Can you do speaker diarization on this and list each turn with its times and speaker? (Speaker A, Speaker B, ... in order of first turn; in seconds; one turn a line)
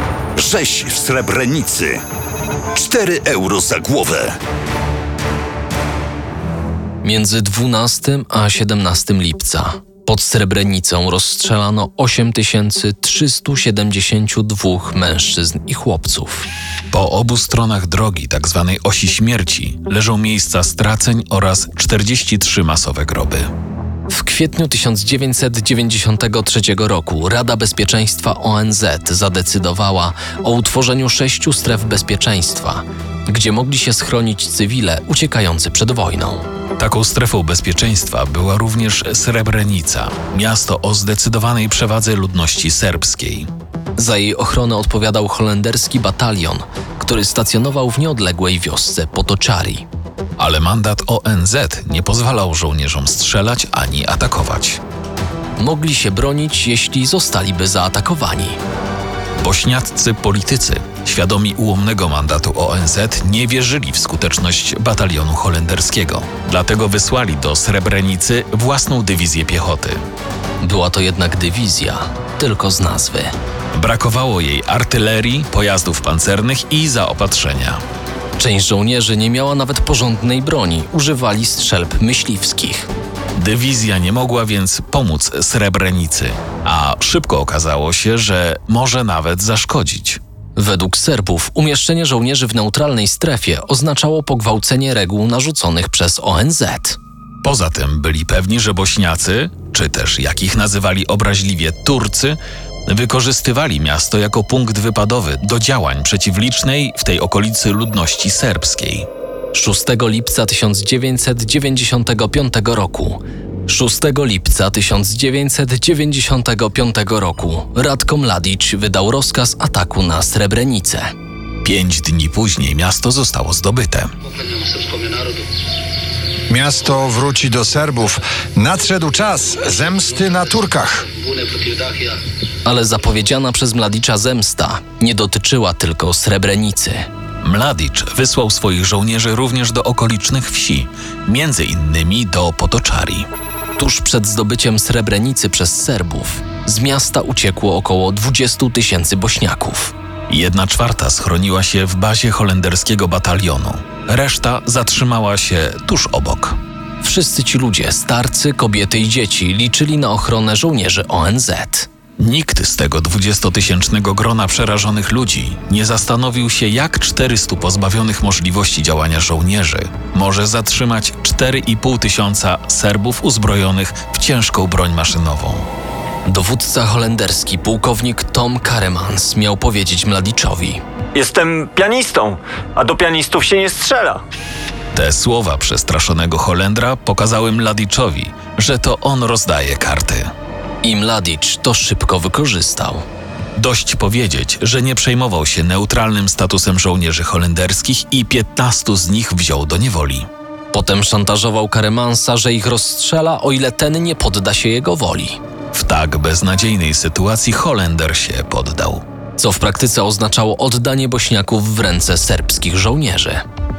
Speaker A: 0.4-2.0
Speaker A: 2.8-4.4
Speaker B: 7.0-16.5
Speaker C: 16.9-23.5
Speaker B: 24.1-36.5
Speaker C: 36.8-43.5
Speaker B: 44.0-49.9
Speaker C: 50.4-54.8
Speaker B: 55.6-58.6
Speaker C: 59.4-70.0
Speaker B: 70.6-73.3
Speaker C: 73.7-77.8
Speaker B: 78.4-82.9
Speaker C: 83.4-90.2
Speaker B: 90.6-97.0
Speaker C: 97.4-109.1
Speaker B: 109.5-121.1
Speaker C: 121.6-124.1
Speaker D: 126.5-131.1
Speaker B: 132.7-137.1
Speaker C: 137.4-143.3
Speaker B: 143.8-149.9
Speaker C: 150.3-156.6
Speaker B: 157.0-161.9
Speaker C: 162.2-175.7
Speaker B: 176.3-180.8
Speaker E: 181.2-184.2
Speaker C: 184.9-190.3
Speaker B: 190.8-193.0
Speaker C: 193.6-200.3
Speaker B: 200.7-205.4
Speaker C: 205.7-209.0
Speaker B: 209.4-213.4